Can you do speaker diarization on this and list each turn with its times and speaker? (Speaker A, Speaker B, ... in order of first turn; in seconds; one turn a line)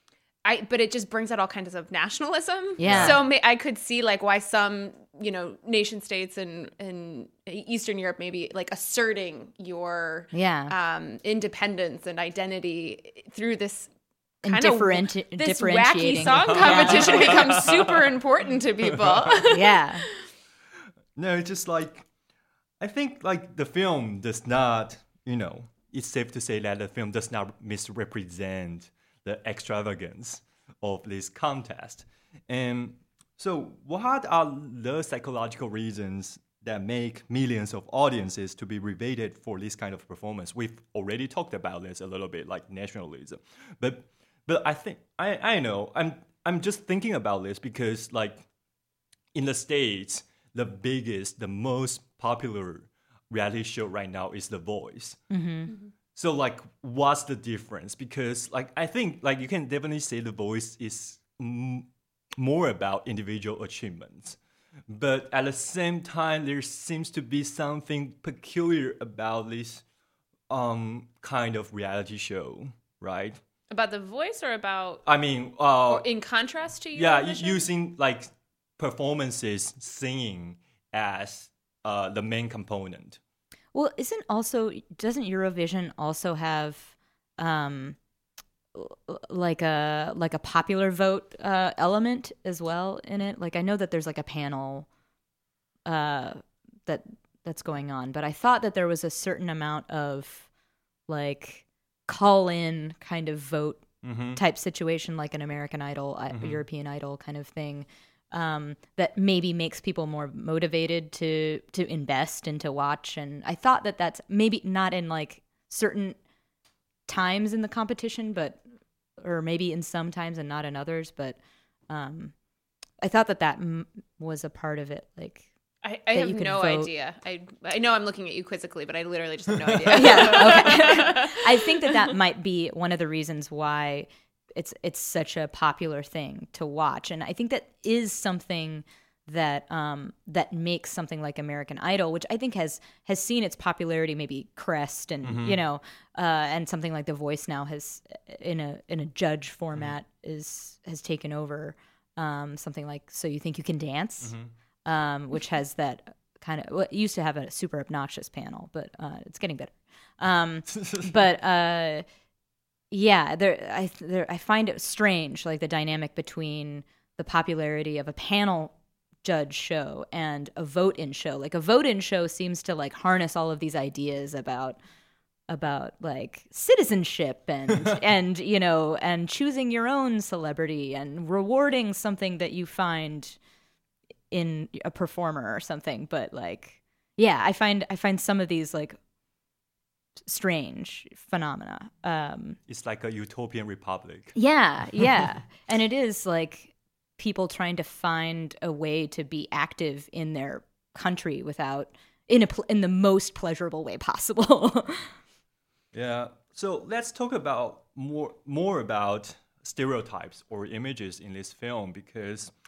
Speaker A: 0.4-13.9
Speaker B: 2.8-3.2
Speaker C: 2.8-3.2
Speaker B: 10.3-10.7
Speaker B: 14.4-17.4
Speaker A: 14.4-20.2
Speaker C: 16.2-18.0
Speaker C: 19.1-19.4
Speaker B: 19.5-20.0
Speaker C: 21.1-22.1
Speaker C: 22.8-48.4
Speaker C: 49.3-55.2
Speaker B: 55.3-55.7
Speaker C: 56.1-64.4
Speaker C: 64.9-69.8
Speaker C: 70.5-73.4
Speaker A: 73.7-75.0
Speaker C: 75.0-76.1
Speaker A: 75.9-77.7
Speaker C: 76.9-83.2
Speaker B: 83.7-88.0
Speaker B: 88.7-94.9
Speaker B: 95.8-100.5
Speaker B: 101.1-116.2
Speaker C: 104.0-104.4
Speaker C: 106.3-106.6
Speaker B: 117.1-118.6
Speaker B: 119.2-121.4
Speaker B: 121.9-122.3
Speaker B: 123.0-125.5
Speaker A: 125.8-132.1
Speaker B: 126.1-126.9
Speaker B: 129.9-162.1
Speaker C: 145.2-145.6
Speaker C: 154.2-154.5
Speaker C: 160.7-161.1
Speaker B: 162.9-174.8
Speaker B: 175.5-183.4
Speaker B: 184.3-189.0
Speaker B: 190.2-192.6
Speaker C: 192.7-194.4
Speaker B: 194.3-205.1
Speaker C: 205.9-212.5